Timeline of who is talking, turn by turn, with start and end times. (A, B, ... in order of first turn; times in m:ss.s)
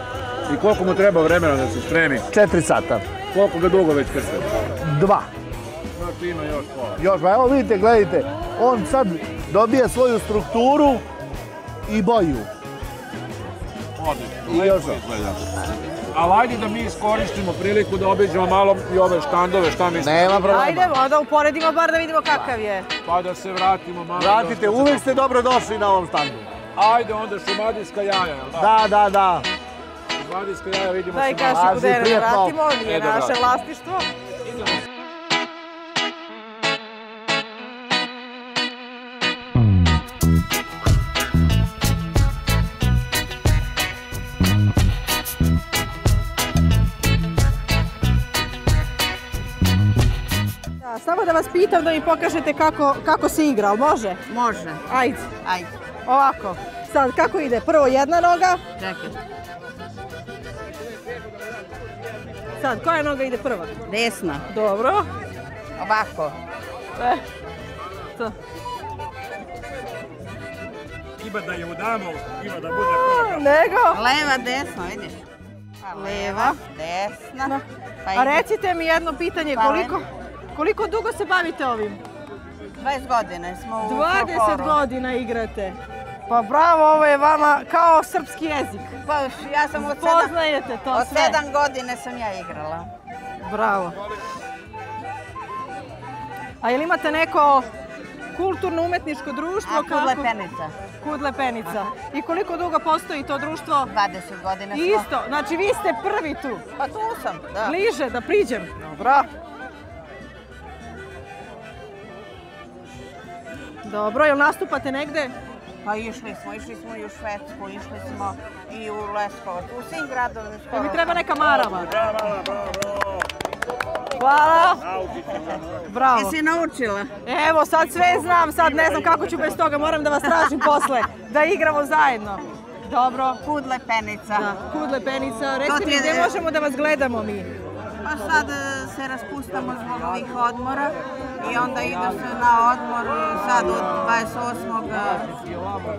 0:00.5-0:02.3 A
0:02.3-0:03.0 B
0:03.3-0:04.5 A
0:04.8-0:05.3 B
0:06.0-0:07.0 A
0:07.0-0:11.0 B
0:11.9-0:12.5 B
0:14.0-0:15.5 A
0:14.5-0:15.0 B
0:16.1-0:20.9 A
0:20.0-0:20.9 B
0:20.5-0:22.9 C
0:23.0-0:25.1 A
0:24.2-0:26.5 B
0:26.8-0:28.7 A
0:28.5-0:29.5 B
0:30.2-0:31.8 A
0:31.1-0:34.0 C
0:31.5-0:32.6 B
0:32.8-0:33.4 A
0:50.8-0:54.2 C
0:54.3-0:54.8 D
0:54.9-0:55.3 C
0:55.4-0:55.7 D
0:56.0-0:58.6 C
0:58.8-0:59.2 D
1:02.6-1:03.7 C
1:03.8-1:04.4 D
1:04.5-1:05.1 C
1:05.8-1:06.4 D
1:07.0-1:07.2 C
1:11.2-1:13.4 E
1:12.9-1:14.0 C
1:13.9-1:15.2 D
1:15.8-1:18.4 D
1:15.9-1:16.6 C
1:17.4-1:22.0 C
1:19.5-1:20.0 D
1:22.8-1:24.8 D
1:23.8-1:25.8 C
1:26.3-1:28.9 C
1:29.0-1:30.3 D
1:29.8-1:31.4 C
1:30.9-1:32.9 D
1:33.4-1:34.0 C
1:36.6-1:37.7 C
1:38.3-1:40.3 C
1:39.6-1:40.7 D
1:41.0-1:43.9 C
1:43.9-1:45.1 D
1:44.7-1:46.6 C
1:46.8-1:47.8 D
1:47.6-1:49.3 C
1:53.8-1:55.3 C
1:55.8-2:01.2 D
2:00.7-2:01.9 C
2:04.2-2:04.8 C
2:05.3-2:05.6 D
2:05.9-2:06.4 C
2:06.1-2:07.1 D
2:07.2-2:13.4 C
2:10.3-2:11.0 D
2:13.4-2:14.5 D
2:14.3-2:17.5 C
2:15.6-2:16.3 D
2:18.0-2:25.3 D